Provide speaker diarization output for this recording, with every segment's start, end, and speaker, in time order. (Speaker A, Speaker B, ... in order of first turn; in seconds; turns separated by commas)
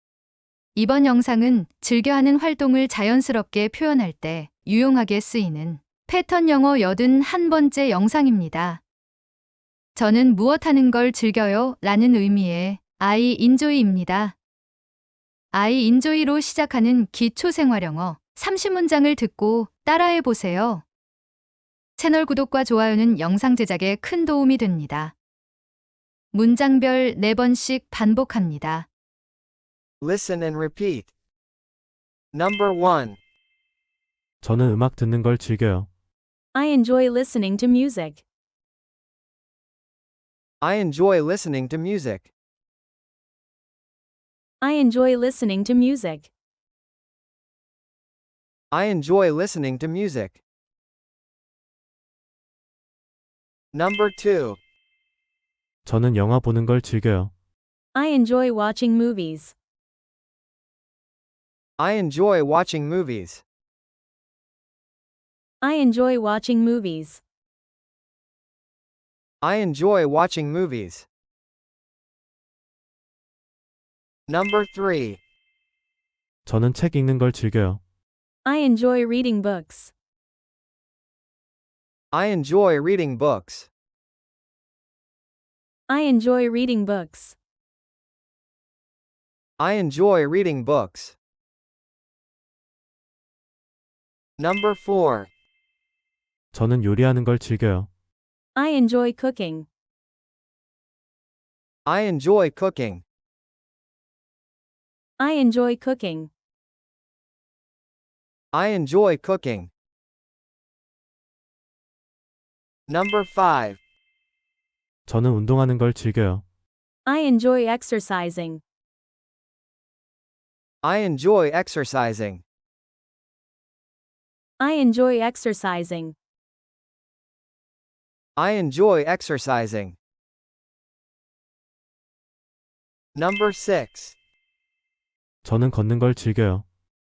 Speaker A: 0.7-8.8, Speaker A: 9.9-14.3, Speaker A: 15.5-20.8, Speaker A: 22.0-25.1, Speaker A: 26.3-28.9, Speaker B: 30.0-31.1, Speaker B: 32.3-33.2, Speaker C: 34.4-35.9, Speaker D: 36.5-38.2, Speaker B: 40.6-42.3, Speaker D: 44.6-46.3, Speaker B: 48.7-50.4, Speaker B: 53.7-54.6, Speaker C: 55.8-57.3, Speaker D: 57.9-59.5, Speaker B: 61.8-63.4, Speaker D: 65.6-67.2, Speaker B: 69.4-71.1, Speaker B: 74.3-75.2, Speaker C: 76.4-77.8, Speaker D: 78.4-79.9, Speaker B: 82.1-83.7, Speaker D: 85.9-87.4, Speaker B: 89.6-91.2, Speaker B: 94.4-95.3, Speaker C: 96.5-97.9, Speaker D: 98.5-99.7, Speaker B: 101.8-103.0, Speaker D: 105.2-106.3, Speaker B: 108.5-109.7, Speaker B: 112.9-113.8, Speaker C: 115.0-116.4, Speaker D: 117.0-118.6, Speaker B: 120.8-122.4, Speaker D: 124.6-126.2, Speaker B: 128.3-130.0, Speaker B: 133.1-134.2, Speaker C: 135.4-136.6